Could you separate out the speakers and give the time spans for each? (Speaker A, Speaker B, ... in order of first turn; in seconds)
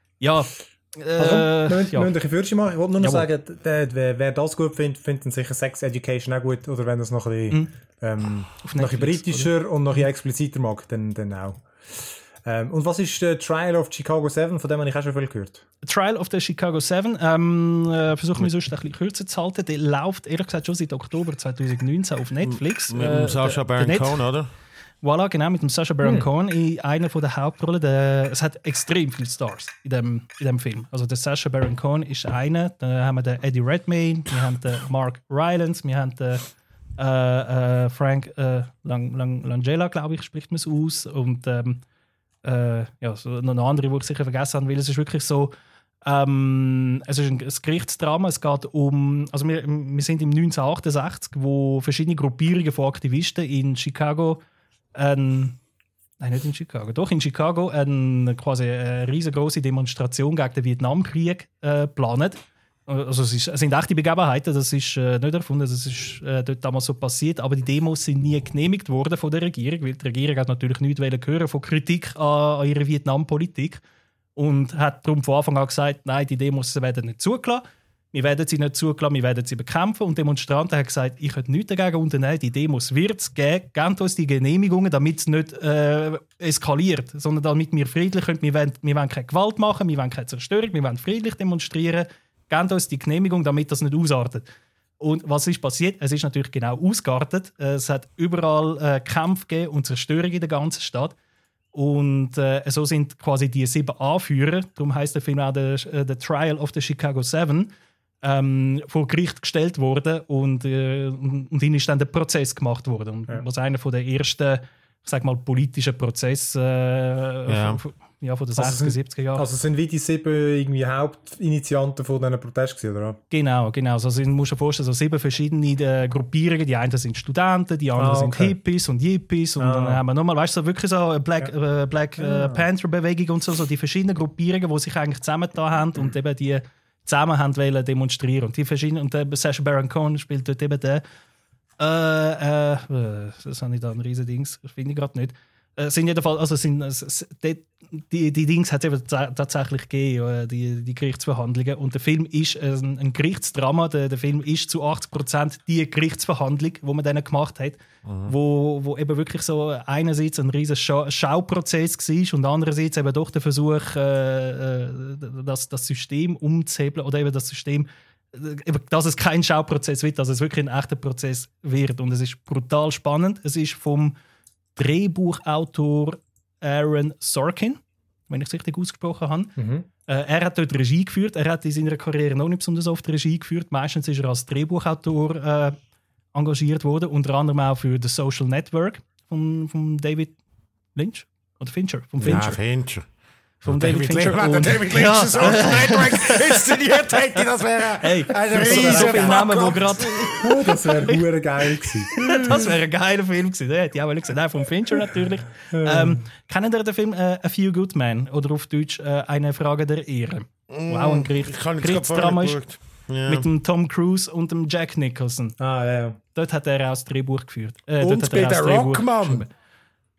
Speaker A: 0.2-2.1, 3.0-3.2, 8.6-9.5, 15.8-24.2, 25.0-36.5, 37.0-41.8, 42.4-45.5, 46.1-54.4, 54.9-55.6, 56.2-73.8, 74.4-94.5, 95.0-101.2, 101.7-107.7, 108.2-119.5, 123.3-141.0, 141.8-174.2, 174.8-179.6, 180.1-185.8, 186.3-190.4, 190.9-192.6, 193.6-197.4, 198.0-201.2, 202.1-212.6, 213.3-215.6, 216.3-219.5
Speaker B: 1.2-15.7, 118.6-123.2, 128.0-128.6, 129.6-130.0, 132.2-132.6, 179.6-179.9, 198.5-199.6, 200.4-202.6, 205.7-206.2, 215.6-216.2
Speaker C: 22.4-24.5, 117.5-117.8, 158.1-158.3, 192.2-193.1, 193.7-200.5, 210.7-213.5, 218.0-219.5